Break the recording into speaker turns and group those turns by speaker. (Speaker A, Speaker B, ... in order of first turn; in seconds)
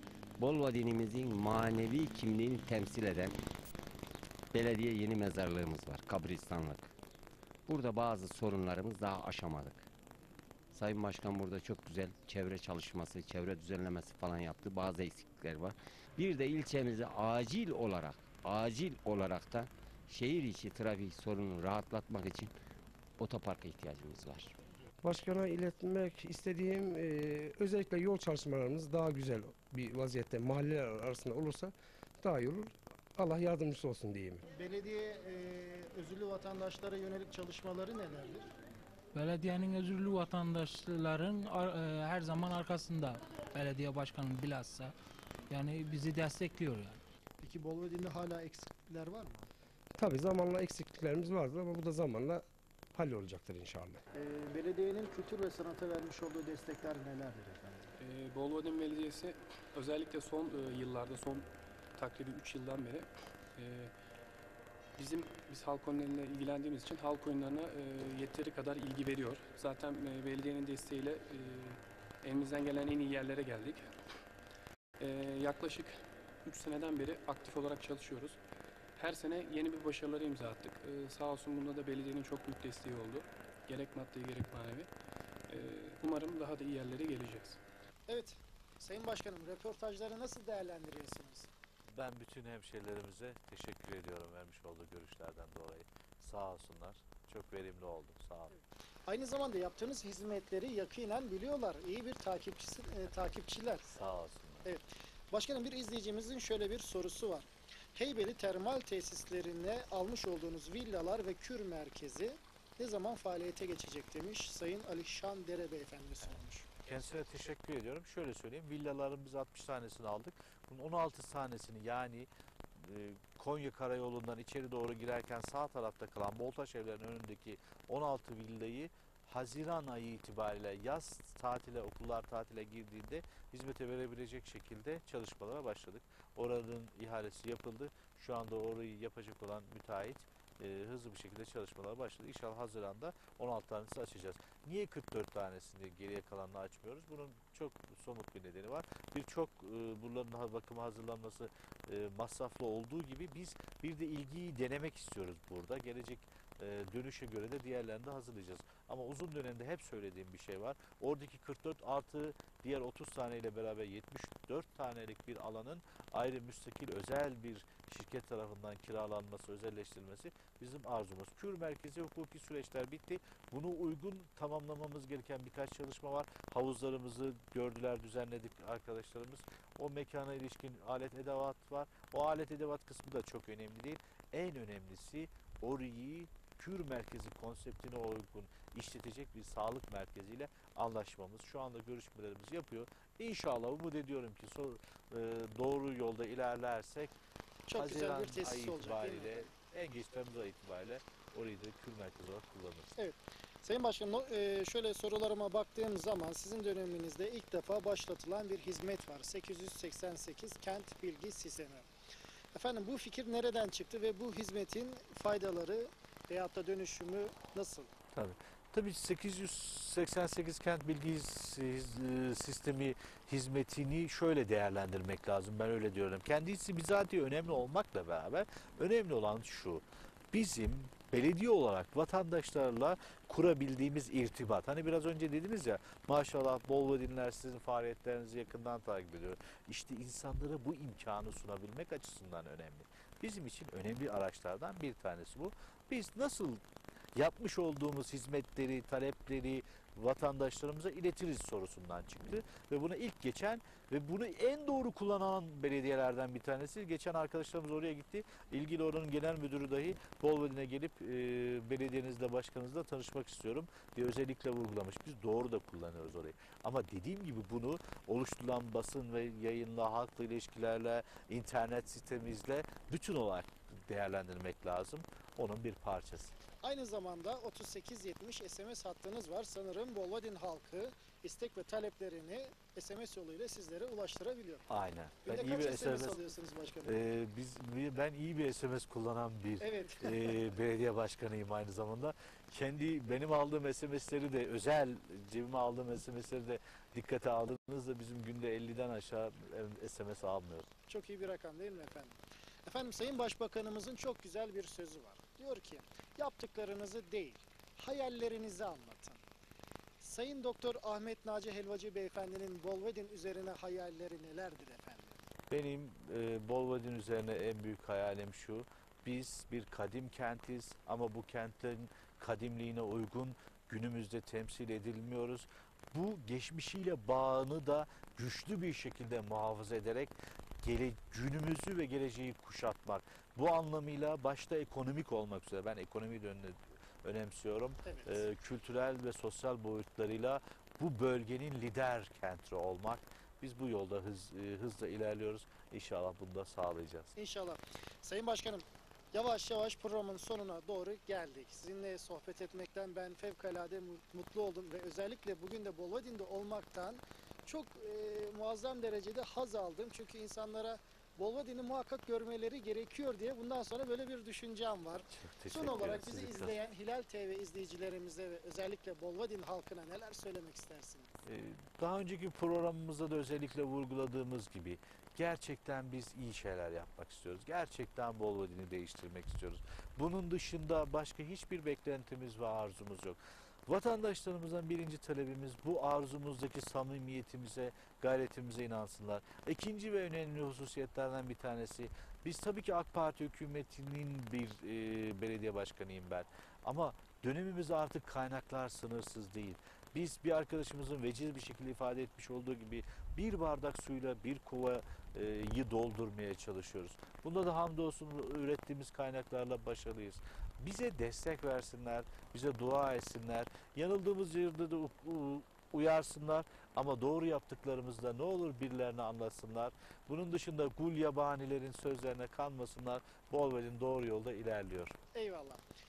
Speaker A: 0.4-3.3, 4.5-6.9, 7.7-9.9, 10.7-22.5, 23.2-24.5
Speaker B: 25.0-34.4, 50.0-52.4, 52.9-54.0
Speaker C: 34.5-38.5, 47.4-49.5, 54.1-57.9, 88.1-91.5, 99.1-104.0, 104.6-116.7, 197.7-199.5, 202.9-211.9, 212.5-217.9, 276.6-284.7, 285.2-287.1, 289.6-290.5, 300.9-309.2, 310.0-315.2, 337.8-338.3, 347.2-371.1, 425.1-425.6
Speaker D: 39.1-44.9, 45.5-47.0
Speaker E: 58.0-63.9, 65.0-73.9, 75.0-75.9, 76.4-78.4, 79.0-84.9, 85.5-87.6
Speaker F: 91.9-98.6, 103.9-104.7, 116.8-197.1, 197.8-203.0, 218.1-246.6, 247.1-276.4, 284.7-286.2, 286.8-300.7, 315.5-347.1, 365.1-366.6, 371.2-424.9